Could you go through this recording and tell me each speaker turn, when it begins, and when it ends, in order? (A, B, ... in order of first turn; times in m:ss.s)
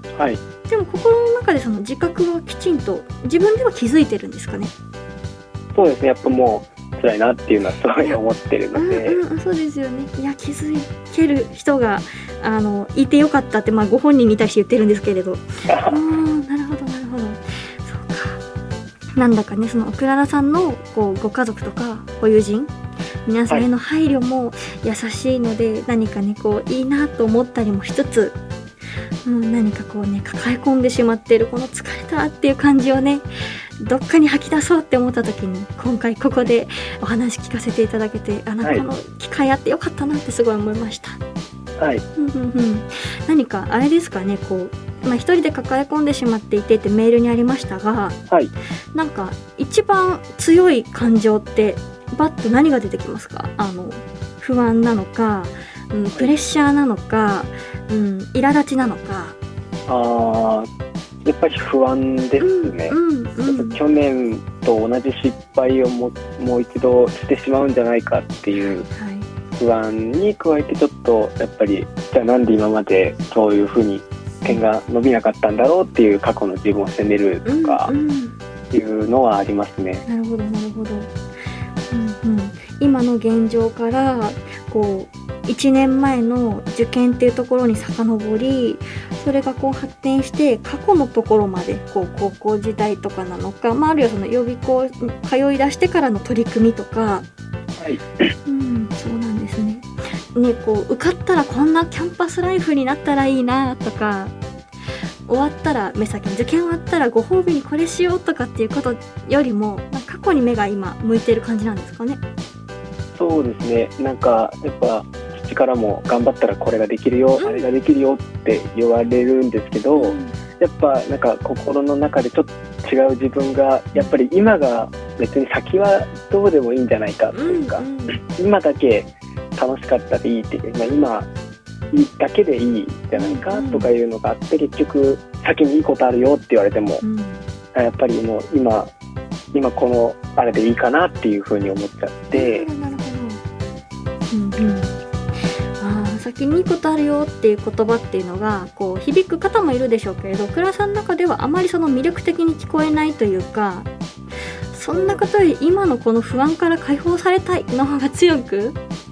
0:00.7-0:04.7 A
0:05.7-0:09.2 B
0:08.7-0:18.4 A
0:15.7-0:16.0 B
0:19.2-0:22.7 A
0:23.2-0:28.4 A
0:29.2-0:33.2 A
0:33.8-0:41.2 A
0:41.8-0:42.0 B
0:42.2-0:48.2 A
0:48.9-0:59.4 A
0:59.9-1:00.7 B
1:01.2-1:08.9 B
1:02.4-1:03.8 A
1:08.9-1:09.3 A
1:09.5-1:17.9 B
1:17.4-1:18.3 A
1:18.7-1:20.0 B
1:20.1-1:21.1 A
1:21.9-1:37.2 A
1:38.4-1:44.3 A
1:45.2-1:52.2 A
1:53.1-2:11.3 B
1:57.4-1:57.6 A
1:59.9-2:00.3 A
2:07.3-2:08.2 A
2:11.9-2:17.0 B
2:13.1-2:13.9 A
2:17.0-2:17.4 A
2:17.7-2:18.9 B
2:19.5-2:22.7 B
2:22.3-2:23.4 A
2:24.3-2:24.9 A
2:25.8-2:33.9 A
2:34.7-2:38.8 A
2:34.9-2:35.2 B